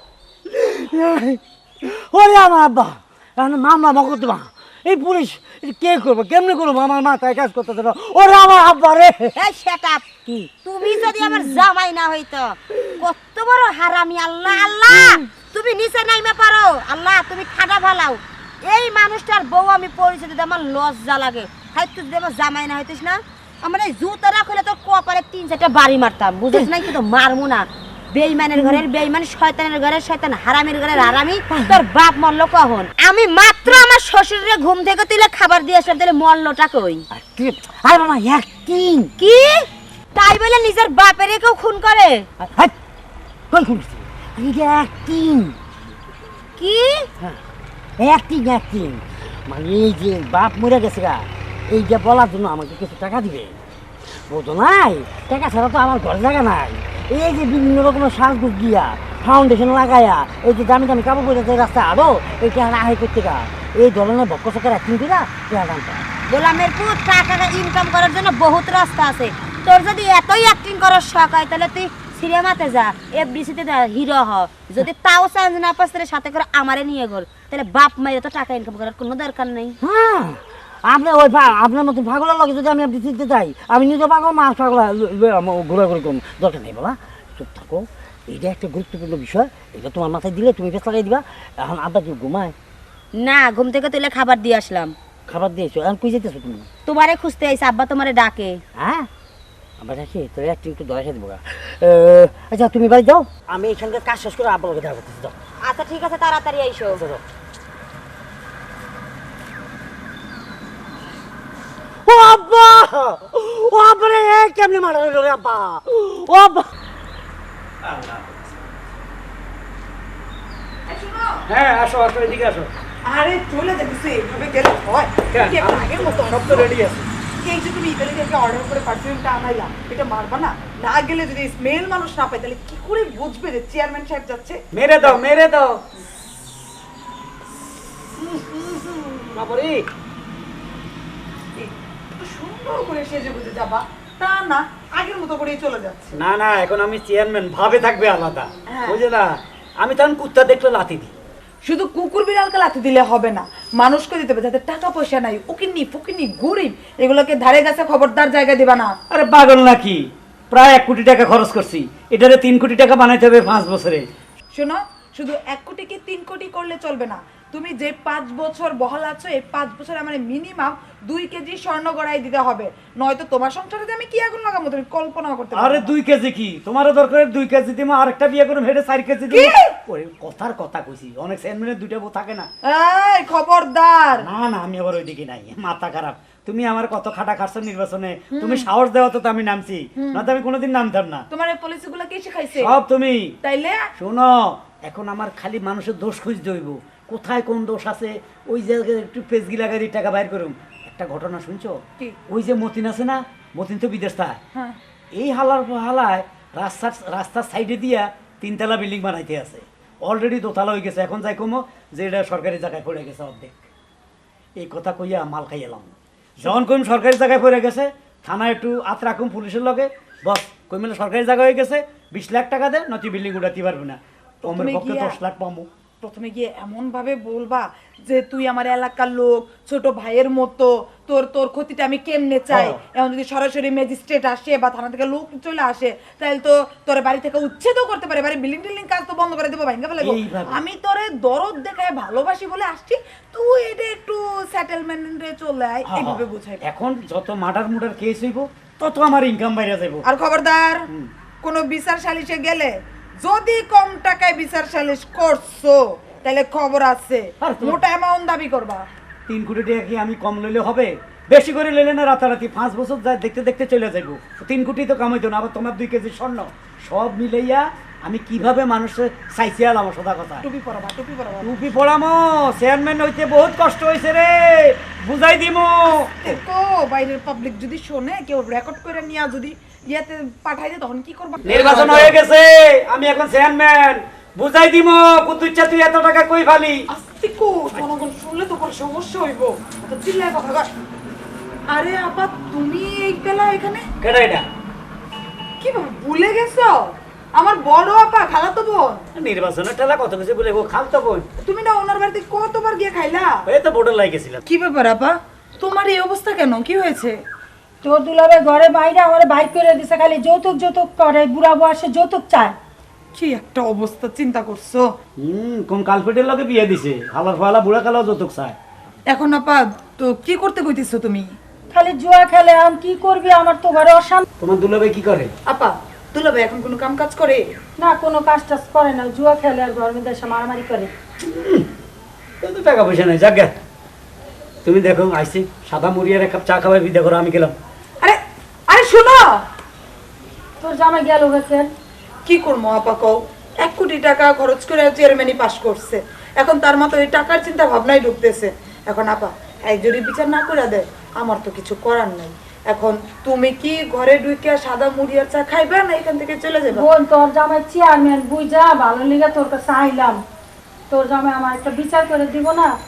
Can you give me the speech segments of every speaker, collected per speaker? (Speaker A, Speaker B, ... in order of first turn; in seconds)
Speaker A: 0.5-9.4, 10.3-11.6, 31.5-31.8, 37.1-39.1, 42.4-42.7, 43.5-45.6, 48.0-53.5, 54.3-66.1, 79.8-92.5, 95.3-96.7, 98.8-99.1, 99.8-105.4, 106.9-107.2, 112.0-116.7
Speaker B: 9.3-10.1, 10.6-37.0, 39.2-42.3, 46.6-47.1, 66.3-79.8, 93.2-95.0, 96.9-98.6, 105.6-107.0
Speaker C: 117.8-118.4, 121.5-122.7, 125.3-127.1, 134.7-135.8, 138.3-139.8, 146.1-151.1, 159.1-164.1, 175.6-182.5, 184.2-191.3, 192.6-193.3, 194.0-204.4, 205.2-213.6, 214.6-225.7, 232.5-232.8, 240.0-240.6, 245.9-250.1, 257.4-257.8, 259.3-270.4, 271.4-276.4, 281.4-286.8, 294.0-294.5, 299.1-301.3, 303.5-304.4, 315.2-318.6, 324.4-325.3, 331.2-331.7, 332.4-333.5, 334.6-337.6
Speaker D: 120.9-121.4, 123.0-126.7, 127.4-135.2, 141.6-146.1, 148.7-149.0, 151.6-158.9, 164.5-175.9, 179.3-179.7, 182.6-184.2, 188.3-188.7, 190.0-190.3, 191.3-192.7, 193.4-193.8, 224.4-225.2, 226.0-246.6, 250.1-250.8, 251.4-258.8, 270.4-271.6, 276.2-282.1, 286.9-290.7, 291.7-293.8, 295.6-299.0, 301.4-303.3, 304.5-307.2, 313.1-314.9, 319.1-321.3, 325.5-327.4, 338.7-339.4, 342.3-356.9
Speaker E: 307.8-312.6, 321.7-324.2, 327.8-330.9, 340.6-341.7, 356.7-360.2, 360.9-362.7